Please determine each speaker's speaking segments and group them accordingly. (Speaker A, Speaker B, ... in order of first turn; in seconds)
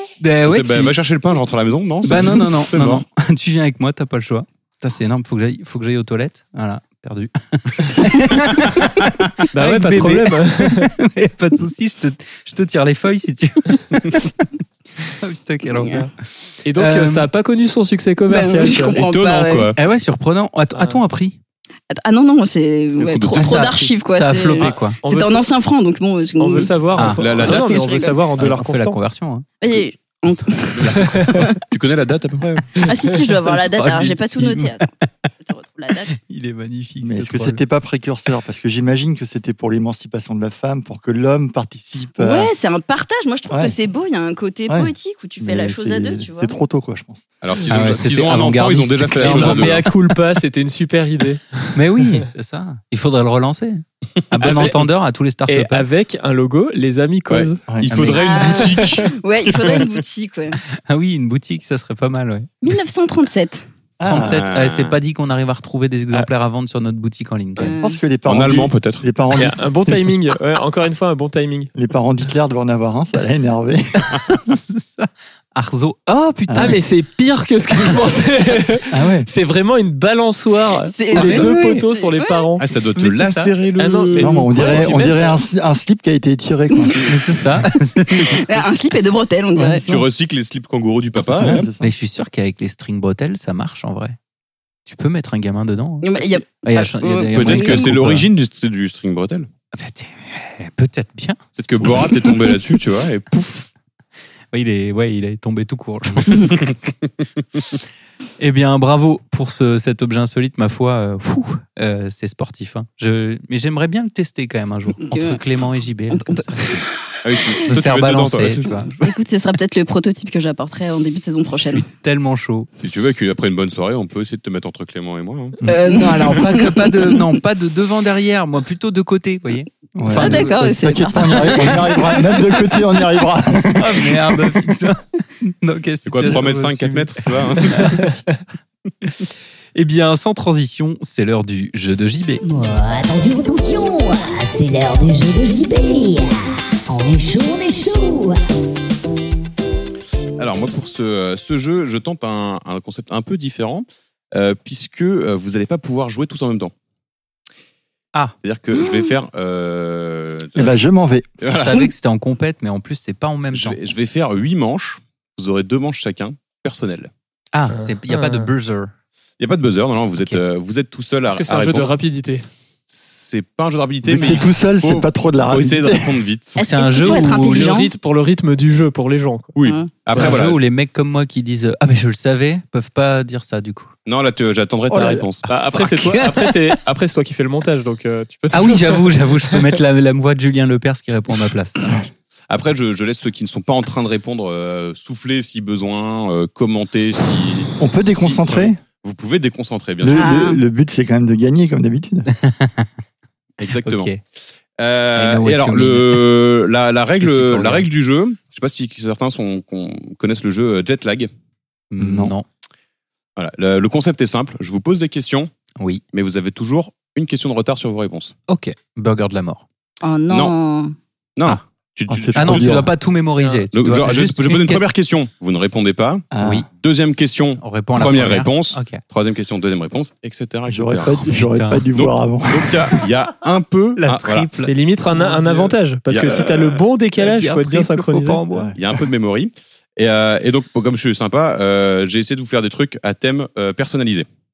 Speaker A: 0.2-0.9, 2.0-14.5, 15.1-16.1, 16.7-17.3, 19.8-21.4, 23.3-25.0, 26.9-27.5, 28.4-29.5, 30.3-31.5, 32.9-34.9, 36.1-37.6, 47.7-49.9, 51.7-55.9, 57.9-58.3, 60.7-62.8, 64.0-67.7, 74.1-76.8, 81.1-81.8, 83.0-83.5, 87.0-88.7, 91.8-94.2, 94.8-98.3, 99.7-102.5, 104.5-106.7, 108.4-116.8, 117.7-119.1, 121.7-122.7, 125.7-130.7, 131.3-131.9, 133.7-138.2, 139.7-142.4, 161.5-163.8, 167.5-168.9, 176.6-177.8, 180.1-183.9, 185.5-186.8, 188.5-192.1, 202.3-202.9, 203.8-204.2, 205.1-206.3, 207.2-207.9, 211.9-212.4, 218.5-219.7, 222.3-224.9, 226.4-226.7, 227.6-229.0, 231.1-231.9, 234.0-235.7, 236.2-238.8
Speaker B: 0.4-3.0, 18.9-19.8, 23.0-23.7, 27.2-27.8, 30.8-32.9, 47.4-49.9, 57.3-59.8, 64.1-65.0, 68.2-69.0, 82.6-84.3, 89.8-91.7, 97.3-99.5, 101.5-103.7, 117.2-118.8, 122.8-125.6, 136.1-138.0, 150.4-156.7, 158.4-160.8, 161.4-161.9, 163.5-167.1, 169.4-171.9, 172.9-176.6, 179.6-180.6, 184.1-185.5, 192.5-200.3, 203.6-204.2, 204.8-211.3, 213.4-215.5, 216.1-218.3, 221.4-222.8, 223.7-226.3, 226.8-231.2, 231.9-234.5, 236.1-236.4, 238.8-244.3
Speaker C: 9.5-10.9, 16.6-19.0, 20.7-21.0, 24.6-25.5, 26.4-29.0, 49.2-52.2, 54.4-54.9, 55.5-57.6, 69.3-71.7, 76.5-82.6, 83.8-85.4, 137.9-138.1, 167.7-168.5, 171.3-172.5, 177.3-179.5, 185.5-189.8, 223.4-223.7, 234.6-238.4
Speaker D: 15.8-16.0, 18.3-19.7, 21.9-28.2, 29.6-31.6, 32.8-34.9, 35.4-36.1, 42.2-46.5, 58.1-60.6, 62.6-63.6, 67.6-68.0, 80.8-82.5, 88.3-89.8, 96.0-97.9, 115.0-115.4, 116.1-116.9, 119.0-121.8, 125.7-126.9, 130.1-132.4, 158.7-159.1, 176.6-177.9, 179.6-179.9, 200.1-200.6, 220.0-220.9
Speaker E: 37.0-42.5, 43.5-43.7, 44.7-47.2, 57.7-58.0, 64.0-64.4, 67.6-70.0, 71.7-74.2, 76.5-76.8, 78.9-79.3, 84.2-87.0, 89.6-90.0, 91.3-91.9, 125.6-125.9, 129.9-134.6, 160.5-161.3, 174.0-176.1, 184.9-185.2, 197.8-198.8, 200.0-202.3, 212.0-212.3, 222.1-222.9, 226.3-226.7, 230.7-233.0, 238.5-238.8
Speaker F: 142.4-148.4